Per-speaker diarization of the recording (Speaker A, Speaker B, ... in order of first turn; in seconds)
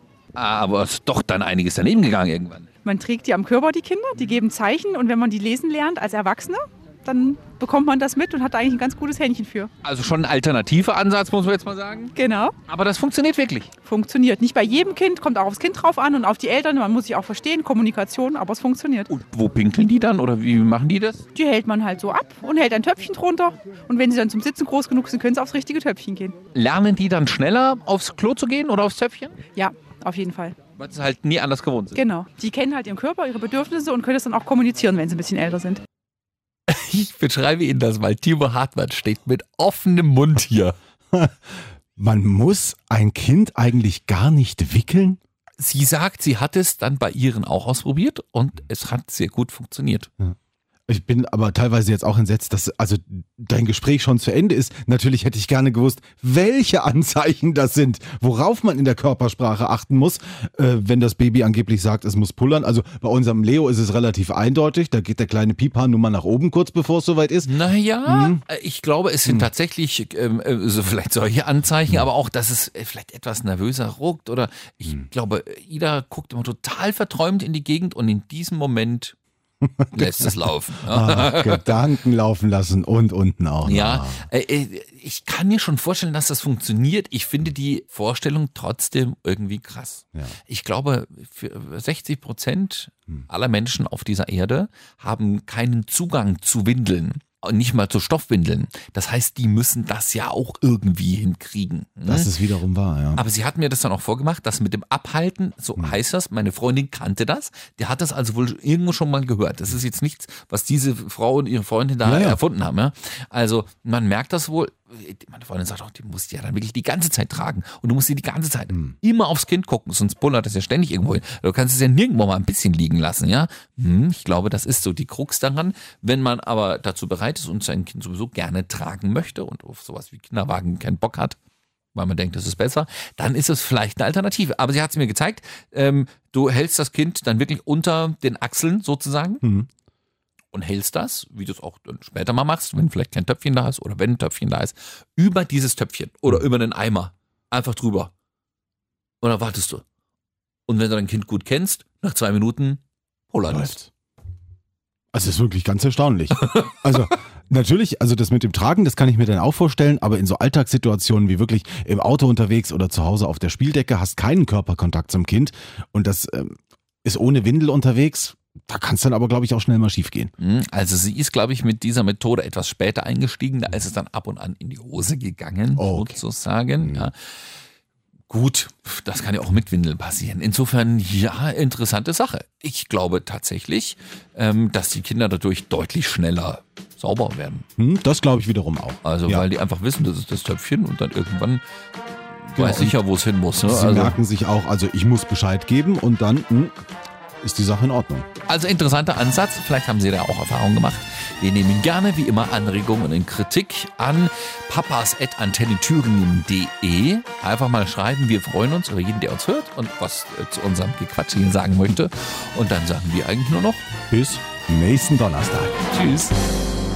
Speaker A: 0.3-2.7, 9.8-12.1, 12.7-13.7, 19.1-21.2, 26.5-29.4, 30.7-32.0, 36.7-40.7, 45.6-50.1, 67.4-79.2, 79.9-81.8, 83.6-102.3, 103.1-131.4, 131.9-139.4, 140.5-148.1, 149.2-149.8, 150.7-153.8, 170.4-177.4, 178.3-187.7, 189.0-191.6, 192.4-194.2, 198.5-213.9, 215.9-216.3
Speaker B: 2.8-9.7, 12.2-12.6, 13.8-19.1, 21.3-26.4, 29.5-30.6, 31.9-35.8
Speaker C: 41.1-45.2, 50.9-67.5, 68.0-68.4, 79.6-84.2, 102.0-103.2, 112.0-112.4, 139.4-139.7, 153.5-153.9, 155.1-170.3, 175.7-176.2, 176.8-177.1, 187.8-189.4, 192.5-193.0, 193.7-196.7, 197.4-198.3, 214.1-215.7